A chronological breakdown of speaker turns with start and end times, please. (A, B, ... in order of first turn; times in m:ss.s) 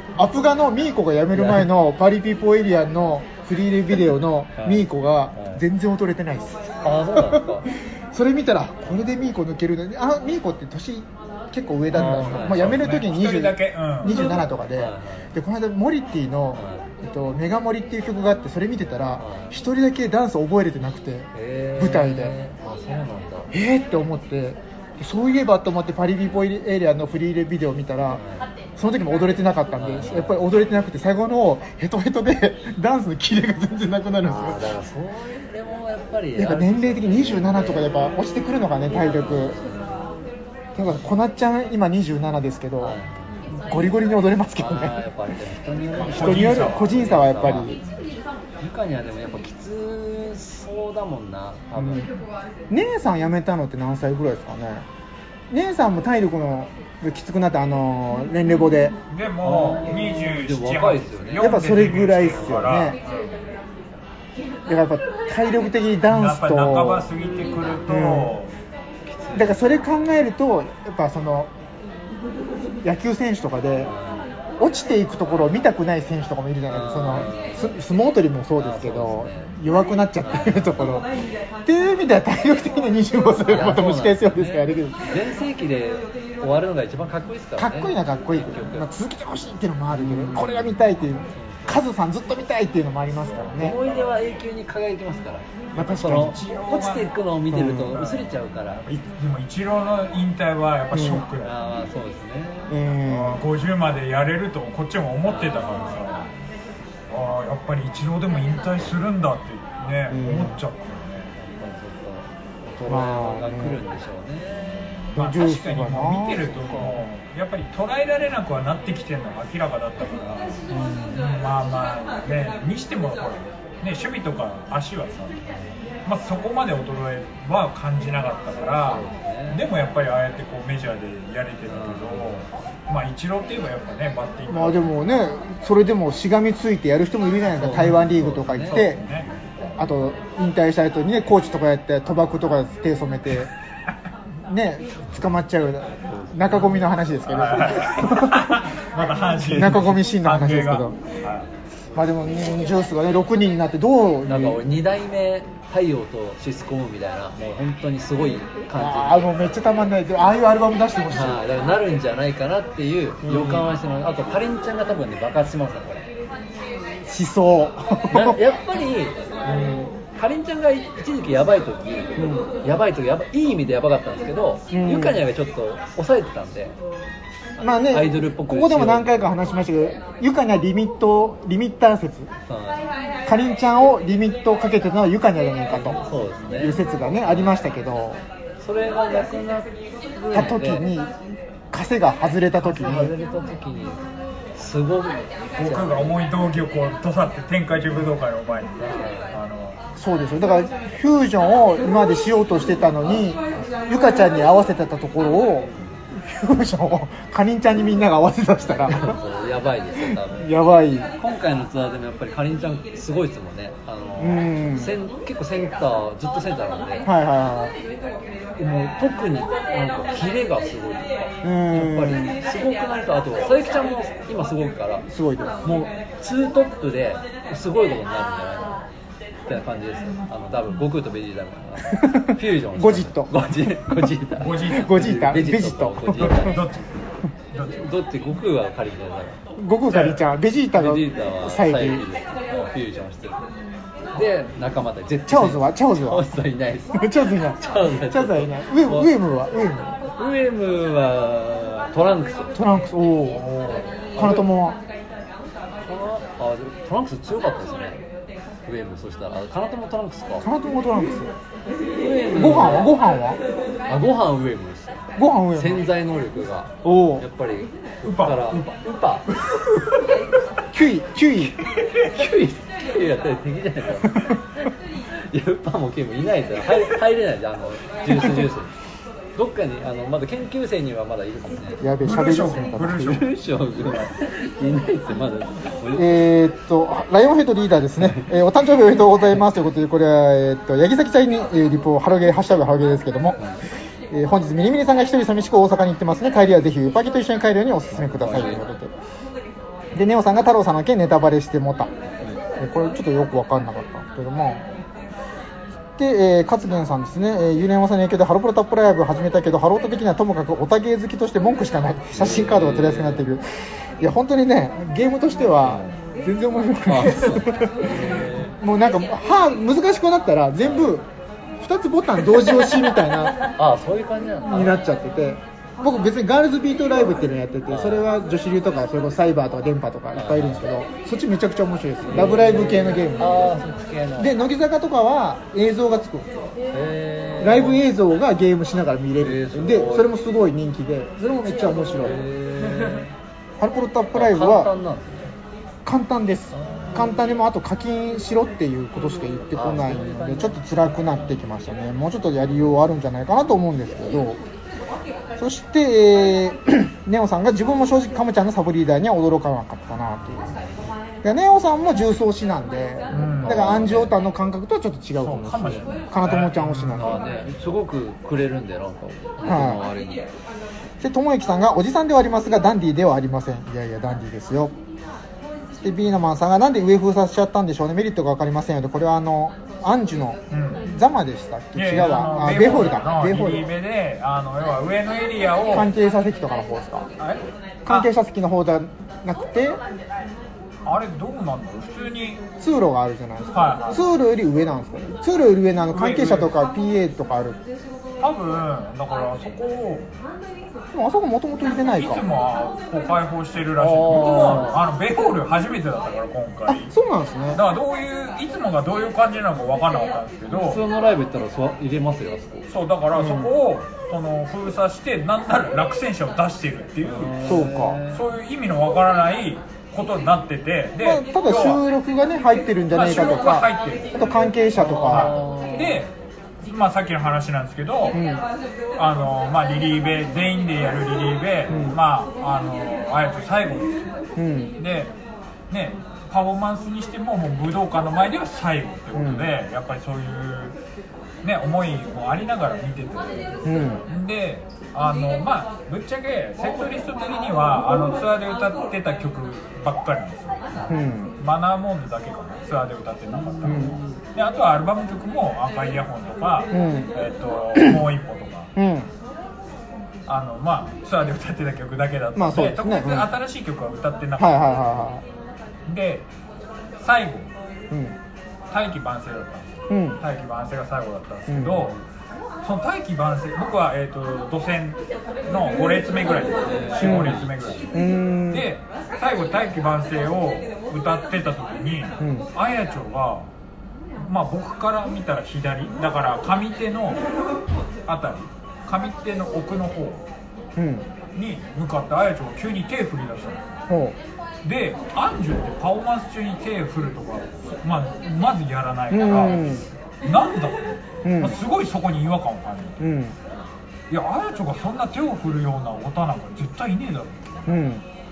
0:00.2-0:22.4 A
0:01.3-0:01.7 B
0:04.6-0:05.6 B
0:06.8-0:07.7 B
0:11.9-0:12.8 B
0:12.0-0:14.4 C
0:14.8-0:15.3 B
0:16.5-0:16.9 B
0:19.2-0:19.5 B
0:21.3-0:23.5 B
0:23.5-0:28.2 A
0:28.1-0:28.5 B
0:28.8-0:34.7 A
0:29.8-0:30.4 B
0:34.2-0:38.0 B
0:36.4-0:39.6 A
0:38.9-0:40.1 B
0:40.8-0:43.0 A
0:42.8-0:43.6 B
0:43.5-0:45.0 A
0:44.6-0:47.8 B
0:46.0-0:47.0 C
0:46.1-0:47.8 A
0:48.6-0:52.1 B
0:51.8-0:52.1 A
0:52.7-0:54.9 A
0:55.5-0:59.0 A
0:59.1-1:03.5 C
0:59.4-1:01.6 B
1:01.4-1:03.0 A
1:04.7-1:07.1 A
1:06.1-1:08.5 C
1:07.3-1:07.8 B
1:07.9-1:08.4 A
1:09.1-1:09.9 B
1:09.3-1:11.5 A
1:12.8-1:13.9 A
1:13.8-1:14.3 B
1:14.6-1:21.1 A
1:16.7-1:17.8 B
1:18.6-1:19.6 B
1:20.2-1:21.0 B
1:21.6-1:25.1 A
1:23.5-1:28.9 B
1:27.6-1:33.8 A
1:29.9-1:31.8 B
1:33.3-1:34.2 C
1:33.6-1:38.8 B
1:35.8-1:36.4 A
1:35.8-1:37.1 C
1:37.5-1:38.0 A
1:37.9-1:41.8 C
1:40.9-1:41.3 A
1:41.4-1:43.0 B
1:42.7-1:43.4 A
1:43.1-1:46.3 C
1:45.2-1:46.1 B
1:47.1-1:51.3 C
1:50.1-1:50.6 A
1:51.3-1:55.1 B
1:52.9-1:53.8 A
1:55.0-2:05.4 C
1:55.1-1:57.0 A
2:00.7-2:01.3 A
2:06.0-2:14.9 C
2:08.9-2:09.6 B
2:11.7-2:12.4 B
2:14.5-2:19.0 A
2:17.5-2:19.2 B
2:18.6-2:19.3 C
2:19.8-2:23.5 A
2:24.5-2:28.6 A
2:26.1-2:26.9 B
2:27.2-2:31.5 C
2:29.4-2:31.0 A
2:31.9-2:34.6 A
2:34.3-2:39.3 B
2:38.8-2:41.4 A
2:41.1-2:46.1 B
2:43.2-2:43.7 A
2:47.1-2:48.4 A
2:48.1-2:56.8 B
2:52.2-2:52.5 A
2:54.7-2:55.2 A
2:57.6-3:02.3 A
2:57.8-2:59.3 B
3:02.5-3:02.9 B
3:03.3-3:06.0 A
3:05.7-3:07.5 B
3:06.6-3:08.2 A
3:08.6-3:10.9 B
3:10.3-3:11.1 A
3:11.7-3:13.1 A
3:12.6-3:14.0 B
3:14.6-3:16.2 B
3:15.6-3:19.8 C
3:18.8-3:19.3 B
3:20.0-3:29.2 A
3:25.6-3:26.0 B
3:28.9-3:30.5 B
3:30.0-3:31.1 A
3:31.2-3:37.1 B
3:34.2-3:34.9 A
3:37.0-3:37.8 A
3:38.6-3:45.1 B
3:41.4-3:42.4 A
3:45.1-3:45.6 A
3:45.6-3:48.8 B
3:49.4-3:56.6 B
3:51.9-3:53.4 A
3:54.4-3:55.4 C
3:54.7-3:56.5 A
3:56.1-3:57.9 C
3:57.8-3:59.4 B
3:59.6-4:02.0 A
3:59.9-4:00.3 C
4:00.8-4:03.4 B
4:04.1-4:09.1 B
4:05.3-4:06.2 A
4:07.0-4:10.0 A
4:10.2-4:12.6 B
4:12.6-4:13.4 A
4:13.6-4:13.8 C
4:13.6-4:14.5 B
4:14.2-4:14.8 A
4:15.8-4:18.0 B
4:18.6-4:20.4 B
4:20.4-4:21.3 A
4:22.0-4:23.0 B
4:22.3-4:23.4 A
4:23.9-4:29.3 B
4:25.2-4:25.8 A
4:26.8-4:27.2 A
4:28.0-4:28.6 C
4:29.5-4:30.0 C
4:30.7-4:31.6 A
4:32.1-4:34.4 B
4:35.1-4:38.7 B
4:39.4-4:41.9 B
4:41.8-4:43.2 A
4:42.0-4:43.3 C
4:43.0-4:46.2 B
4:46.0-4:53.4 A
4:48.0-4:48.3 B
4:54.1-4:58.9 A
4:57.9-4:58.6 B
4:59.9-5:01.9 A
5:02.6-5:04.8 A
5:06.0-5:13.4 A
5:12.1-5:13.3 B
5:14.0-5:21.1 A
5:15.6-5:15.9 B
5:16.9-5:18.6 B
5:20.6-5:20.9 B
5:21.6-5:23.4 A
5:23.6-5:24.8 B
5:24.5-5:33.6 A
5:27.7-5:28.1 B
5:30.1-5:30.7 B
5:32.1-5:34.3 B
5:34.2-5:36.5 A
5:36.7-5:37.8 B
5:37.4-5:42.2 A
5:39.2-5:40.1 B
5:41.9-5:43.1 B
5:43.6-5:44.7 A
5:44.1-5:45.3 B
5:45.8-5:54.4 A
5:46.5-5:47.1 B
5:49.5-5:51.4 B
5:55.4-6:00.6 A
6:01.2-6:07.2 A
6:03.1-6:04.0 C
6:03.1-6:04.1 B
6:05.2-6:07.2 C
6:07.0-6:10.3 B
6:09.4-6:09.8 A
6:11.0-6:14.7 A
6:15.8-6:23.7 A
6:20.5-6:20.9 C
6:21.8-6:25.9 C
6:25.7-6:27.1 A
6:27.2-6:28.1 C
6:27.9-6:29.8 A
6:30.8-6:32.4 C
6:32.6-6:37.6 A
6:33.5-6:34.0 C
6:35.9-6:36.5 C
6:38.2-6:40.1 C
6:40.9-6:42.2 A
6:42.0-6:46.9 C
6:43.8-6:44.8 B
6:46.7-6:47.6 A
6:47.5-6:50.8 C
6:50.5-6:52.7 B
6:52.7-6:57.4 C
6:53.1-6:53.5 A
6:57.0-6:58.2 B
6:57.4-6:58.0 A
6:58.1-7:01.8 C
7:01.0-7:05.4 A
7:02.9-7:04.2 C
7:04.8-7:06.0 B
7:05.1-7:06.1 C
7:06.6-7:08.2 C
7:08.1-7:08.5 A
7:09.0-7:14.2 C
7:11.7-7:12.0 A
7:14.4-7:14.8 A
7:14.8-7:15.1 C
7:15.7-7:20.8 C
7:19.1-7:19.5 A
7:21.4-7:30.8 C
7:23.6-7:24.0 A
7:30.9-7:31.3 A
7:31.4-7:38.7 C
7:33.3-7:34.2 B
7:33.6-7:34.0 A
7:36.7-7:37.1 A
7:37.8-7:38.1 A
7:38.8-7:39.1 A
7:40.3-7:45.1 C
7:42.4-7:43.3 A
7:44.4-7:45.2 A
7:45.9-7:46.3 C
7:47.0-7:47.5 C
7:47.9-7:48.2 A
7:48.7-7:52.0 C
7:49.9-7:50.2 A
7:51.5-7:51.9 A
7:52.6-7:57.9 C
7:56.6-7:57.8 B
7:57.0-7:57.4 A
7:57.9-7:58.7 A
7:58.5-8:03.5 C
8:02.2-8:02.5 A
8:04.2-8:07.2 C
8:08.1-8:10.2 C
8:10.8-8:11.1 A
8:11.4-8:13.7 C
8:13.9-8:14.2 A
8:14.6-8:23.0 C
8:19.1-8:19.9 A
8:21.2-8:21.6 A
8:23.0-8:23.4 A
8:24.1-8:27.7 C
8:27.7-8:28.0 A